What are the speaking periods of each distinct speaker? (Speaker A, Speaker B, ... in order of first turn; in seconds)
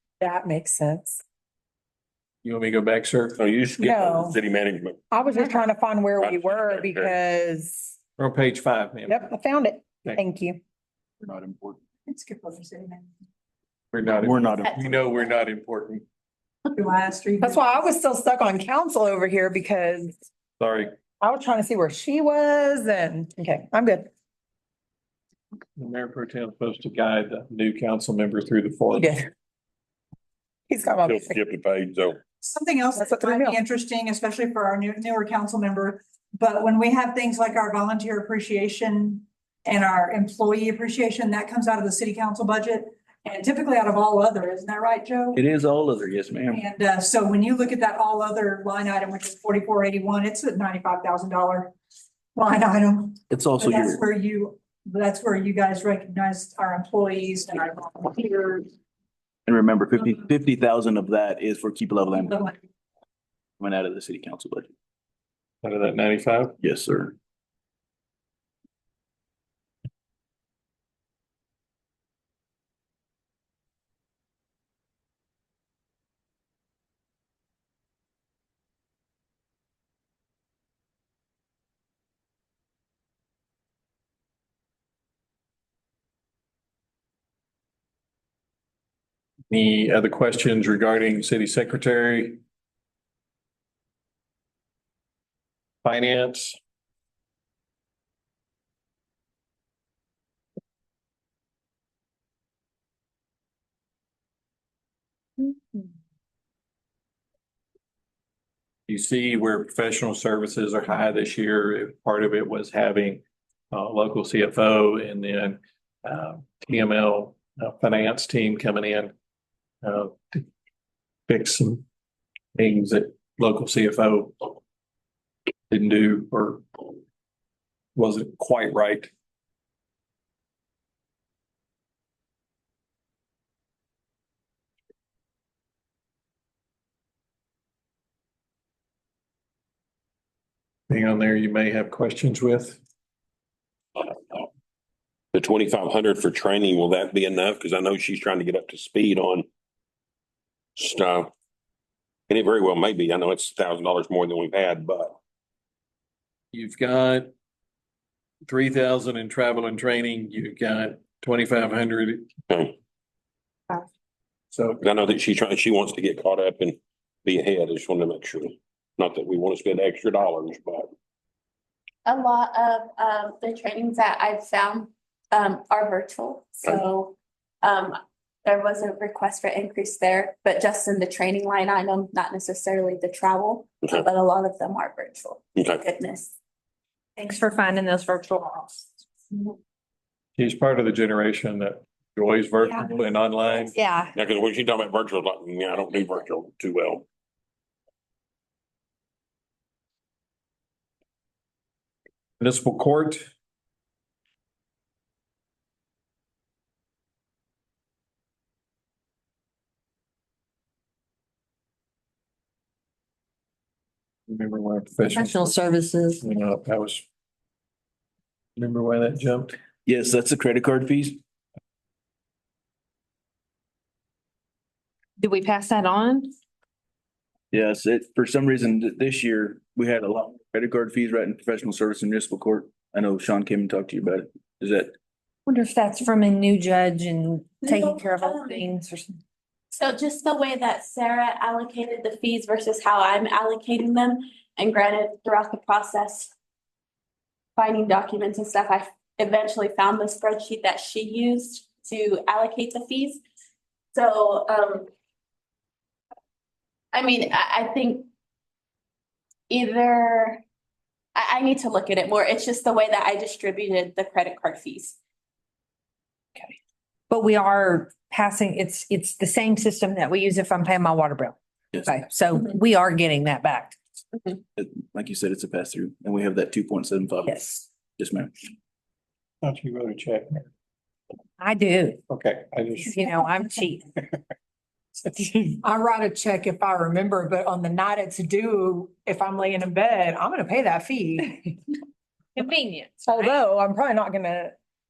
Speaker A: 0.2-1.2, 3.8-4.4, 5.1-7.9, 9.1-10.6, 17.4-20.2, 21.2-24.1, 28.9-29.3, 30.7-31.4, 33.0-33.6, 285.6-291.6, 293.1-294.6
Speaker B: 2.4-3.4, 8.2-9.3, 13.9-16.1, 20.6-21.0, 25.8-29.2, 65.6-66.5, 89.5-92.4, 95.8-96.6, 108.9-119.1, 119.8-120.5, 121.3-121.8, 122.5-124.6, 125.7-126.7, 128.0-129.1, 140.9-142.8, 156.5-157.3, 158.4-162.3, 164.5-164.8, 190.4-193.8, 202.4-203.2, 214.3-215.6, 216.2-217.0, 218.6-219.6, 279.4-280.4, 282.1-283.0
Speaker C: 3.4-5.0, 6.2-7.2, 31.1-32.2, 145.3-149.5, 150.8-151.3, 152.3-155.2, 162.5-162.8, 164.8-170.9, 194.2-197.1
Speaker D: 11.2-11.8, 14.2-14.8, 45.3-46.6, 53.3-54.0, 59.5-62.4, 63.6-64.7, 66.6-67.2, 219.9-221.2, 227.5-234.9, 274.6-277.5, 278.0-278.5
Speaker E: 12.1-13.1, 16.7-17.8, 32.4-45.4, 46.5-51.7, 52.4-58.7, 62.3-62.6
Speaker F: 105.4-105.8, 187.2-188.9, 193.7-194.1, 215.1-216.3, 225.2-226.3, 235.5-239.2, 267.1-273.8, 277.3-277.6, 281.4-282.0, 282.9-283.9, 285.1-285.6, 292.4-293.5
Speaker G: 172.1-186.3, 237.7-238.6, 239.8-246.3, 247.6-253.2, 253.9-254.9, 256.9-258.1, 259.5-260.4, 261.1-265.0